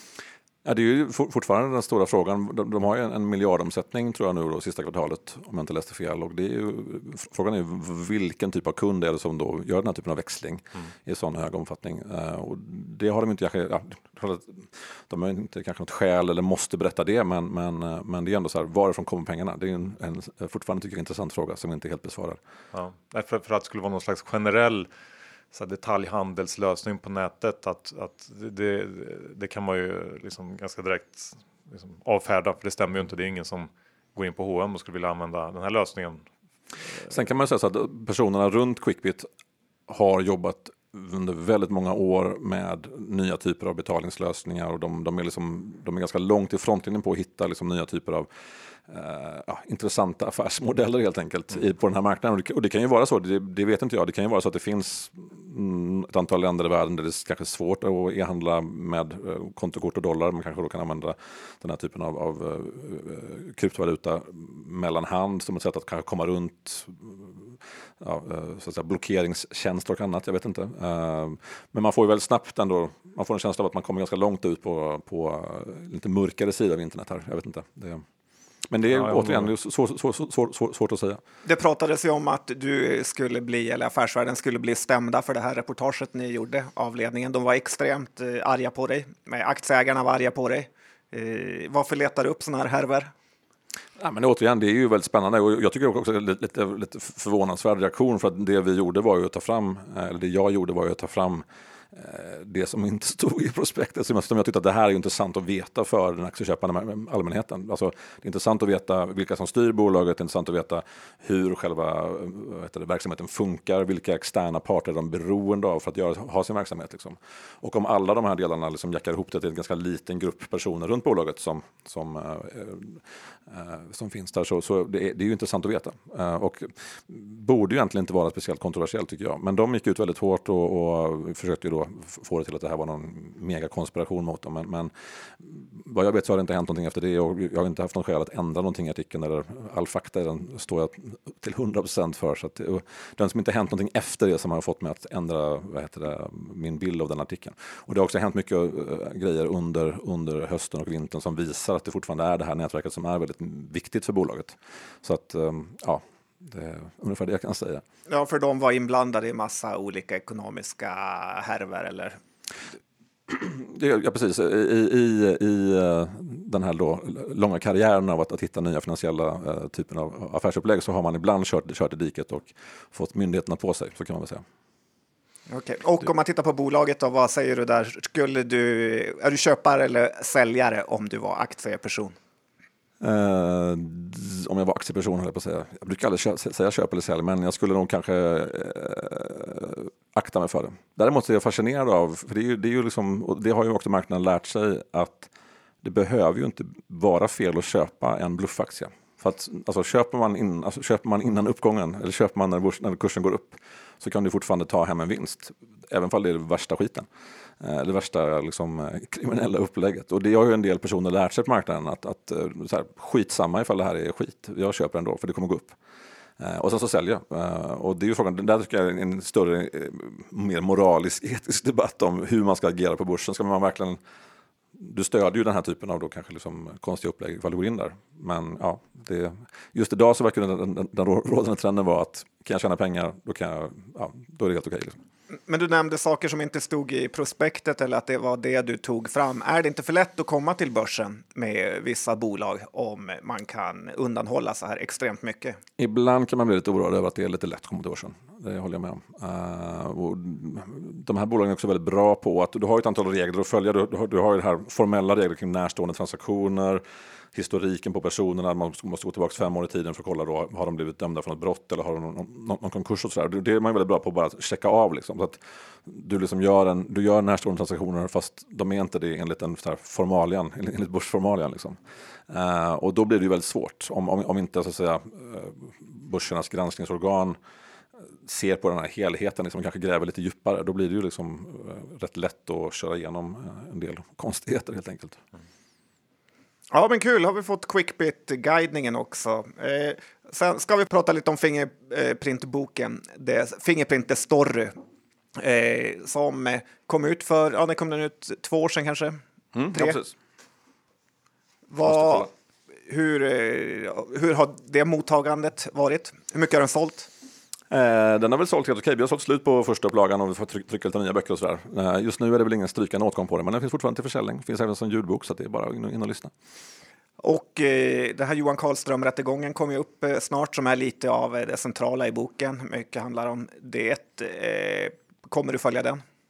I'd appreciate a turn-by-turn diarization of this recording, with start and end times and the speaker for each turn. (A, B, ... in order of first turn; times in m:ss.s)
0:00.6-0:22.4 A
0:22.7-0:24.9 B
0:25.5-0:36.2 B
0:37.0-0:39.3 A
0:39.9-0:48.3 A
0:48.9-1:18.0 A
1:18.7-1:21.2 A
1:18.9-1:19.5 B
1:21.4-1:33.1 C
1:34.0-2:37.8 A
2:38.1-2:42.2 C
2:43.3-2:54.4 A
2:55.5-3:02.2 C
3:03.0-3:15.3 A
3:15.8-3:27.1 A
3:27.6-3:35.8 A
3:36.4-3:44.0 A
3:44.8-3:55.0 A
3:55.5-4:05.6 C
4:05.8-4:16.8 A
4:17.3-4:31.8 A
4:32.3-4:37.4 A
4:38.2-4:45.2 A
4:46.7-4:54.8 C
4:55.4-5:00.0 C
4:59.6-5:00.2 A
5:01.7-5:02.3 C
5:01.8-5:02.3 A
5:02.9-5:07.1 C
5:07.7-5:16.3 A
5:17.2-5:26.0 C